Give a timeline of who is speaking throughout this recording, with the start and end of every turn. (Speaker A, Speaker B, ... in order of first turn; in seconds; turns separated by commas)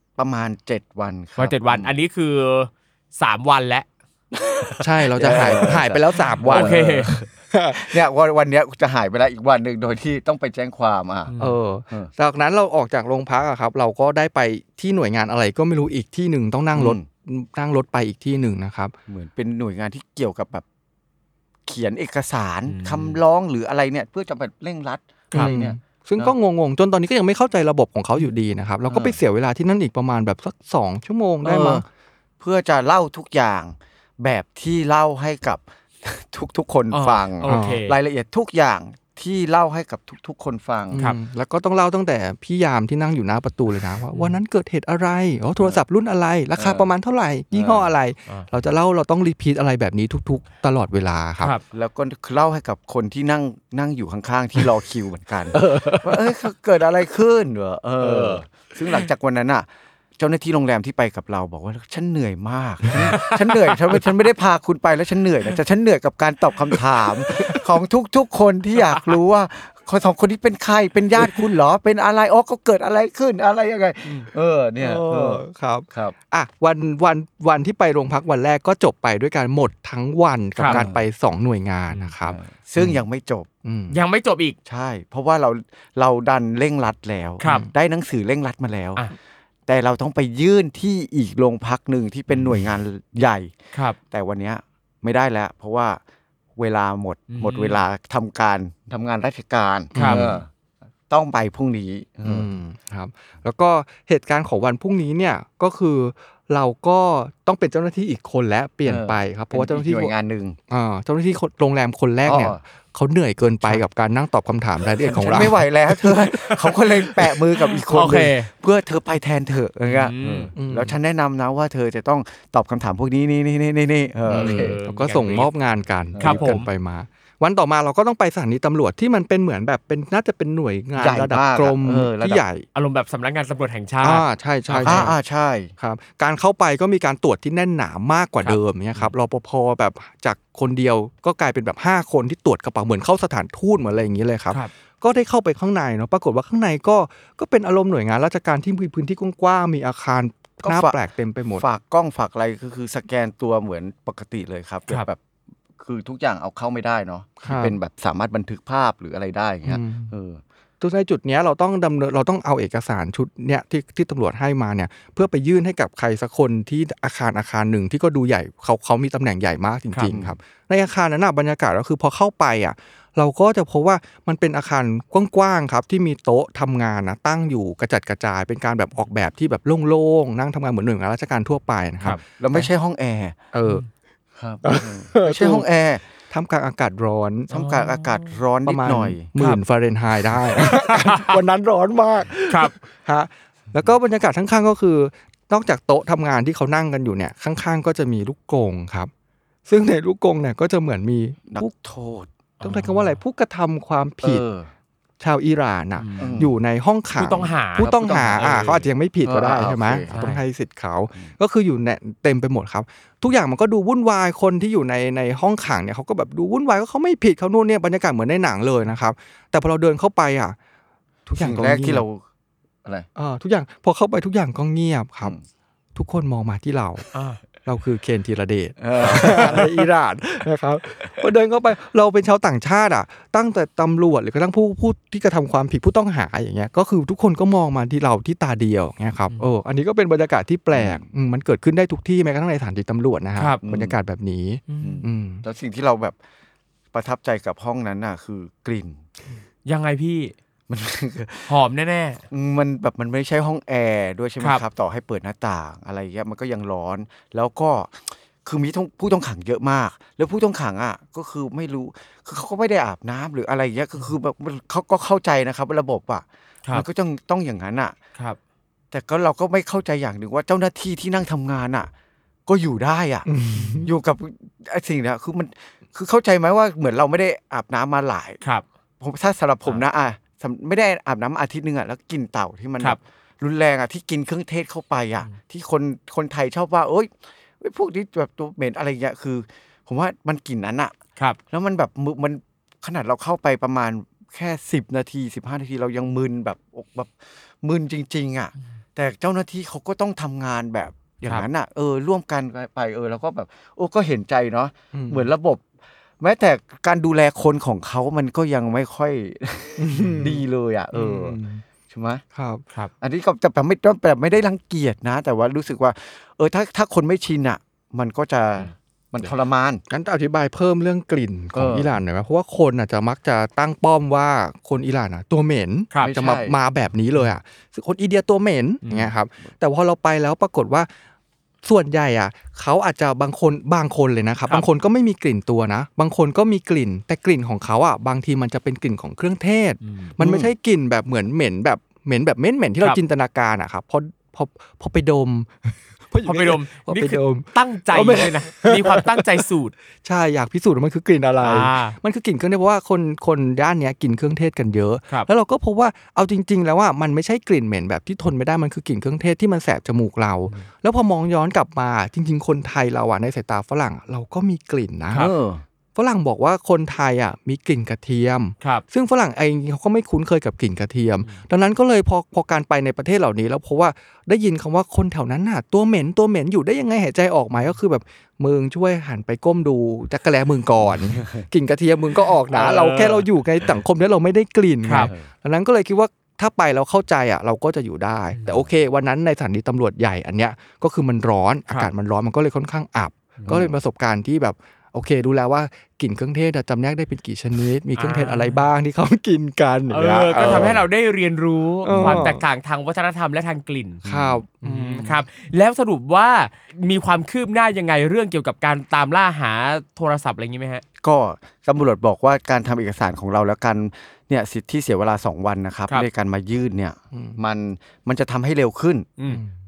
Speaker A: 0.2-1.9, Speaker B: 1.4-3.9, Speaker A: 4.4-11.3, Speaker C: 4.8-6.8, Speaker B: 5.2-5.8, Speaker B: 6.4-7.1, Speaker C: 7.5-7.9, Speaker B: 11.3-11.6, Speaker C: 11.4-18.9, Speaker A: 16.7-17.1, Speaker A: 19.1-20.6, Speaker A: 21.7-26.4, Speaker B: 22.7-23.2, Speaker C: 25.3-31.9, Speaker A: 28.9-29.2, Speaker A: 31.4-31.9, Speaker A: 32.4-41.0, Speaker B: 36.9-38.0, Speaker C: 37.5-37.8, Speaker C: 40.9-51.5, Speaker B: 44.1-44.4, Speaker A: 46.5-46.9, Speaker A: 47.5-47.9, Speaker A: 51.7-76.2, Speaker B: 55.5-56.1, Speaker B: 58.0-58.4, Speaker B: 62.9-63.7, Speaker C: 74.8-83.0, Speaker B: 80.6-80.8, Speaker A: 80.7-81.0, Speaker A: 82.2-83.5, Speaker C: 83.7-84.0, Speaker B: 83.9-84.6, Speaker A: 84.7-89.1, Speaker B: 87.4-87.7, Speaker C: 87.4-87.7, Speaker A: 89.7-93.5, Speaker A: 94.1-96.0, Speaker A: 96.6-100.5, Speaker B: 97.3-97.8, Speaker B: 99.9-100.3, Speaker C: 100.0-100.4, Speaker A: 101.1-102.5, Speaker C: 102.2-110.1, Speaker A: 108.8-110.6, Speaker C: 110.7-115.7, Speaker A: 112.2-112.6, Speaker A: 115.0-124.8, Speaker B: 115.1-118.5, Speaker B: 119.8-120.5, Speaker C: 120.6-121.0, Speaker B: 124.3-125.5, Speaker C: 124.3-132.7, Speaker A: 126.1-126.5, Speaker B: 126.2-126.7, Speaker A: 131.0-132.4, Speaker B: 132.7-135.2, Speaker C: 134.0-135.2, Speaker A: 134.8-135.7, Speaker C: 135.8-151.7, Speaker B: 138.4-139.1, Speaker A: 150.6-151.0, Speaker A: 151.6-155.2, Speaker A: 155.8-160.4, Speaker C: 157.4-157.8, Speaker C: 159.7-160.1, Speaker C: 160.8-182.7, Speaker A: 170.1-170.4, Speaker A: 182.4-183.4, Speaker C: 183.5-183.8, Speaker A: 184.4-186.0, Speaker C: 184.7-185.7, Speaker C: 186.3-187.5, Speaker B: 187.5-188.4, Speaker A: 187.5-189.3, Speaker C: 188.7-199.1, Speaker B: 190.9-191.3, Speaker B: 192.5-192.8, Speaker C: 199.7-201.7, Speaker A: 201.5-202.3, Speaker B: 202.6-203.1, Speaker C: 202.6-204.4, Speaker A: 204.2-204.7, Speaker C: 205.2-220.6, Speaker B: 206.0-206.4, Speaker A: 206.2-206.6, Speaker B: 207.2-208.9, Speaker A: 207.8-210.3, Speaker B: 210.1-210.4, Speaker C: 221.3-222.0, Speaker A: 221.4-222.2, Speaker C: 223.2-225.4, Speaker C: 225.9-227.1, Speaker B: 227.1-227.4, Speaker C: 227.7-245.4, Speaker A: 228.8-229.9, Speaker A: 240.7-241.1, Speaker A: 243.6-244.0, Speaker B: 244.7-245.1, Speaker A: 244.8-246.2, Speaker A: 246.9-249.1, Speaker B: 249.7-250.3, Speaker A: 250.7-251.6, Speaker B: 251.5-252.2, Speaker A: 252.3-268.0, Speaker A: 268.9-271.9, Speaker A: 272.5-273.3, Speaker C: 273.3-273.9, Speaker B: 273.6-273.9, Speaker A: 273.8-278.4, Speaker A: 279.0-290.9, Speaker A: 291.5-305.7, Speaker C: 304.9-305.3, Speaker A: 306.2-312.2, Speaker C: 309.8-310.4, Speaker C: 310.9-311.6, Speaker C: 312.4-312.6, Speaker A: 313.0-319.8, Speaker C: 319.9-330.9, Speaker A: 321.5-321.9, Speaker A: 326.0-326.6, Speaker B: 328.9-329.1, Speaker C: 331.6-349.2, Speaker B: 339.8-340.1, Speaker A: 340.2-340.5, Speaker B: 346.3-349.7, Speaker C: 350.0-365.3, Speaker B: 351.4-352.0, Speaker A: 365.1-365.6, Speaker C: 366.0-400.8, Speaker A: 380.8-381.5, Speaker B: 382.5-383.2, Speaker B: 384.8-385.1, Speaker A: 385.0-385.3, Speaker B: 388.3-388.6, Speaker A: 393.5-393.8, Speaker B: 398.0-398.6, Speaker B: 399.9-404.0, Speaker A: 400.4-400.8, Speaker C: 401.9-402.4, Speaker A: 401.9-402.3, Speaker A: 404.0-404.4, Speaker C: 404.0-405.2, Speaker B: 404.6-410.8, Speaker A: 411.0-419.1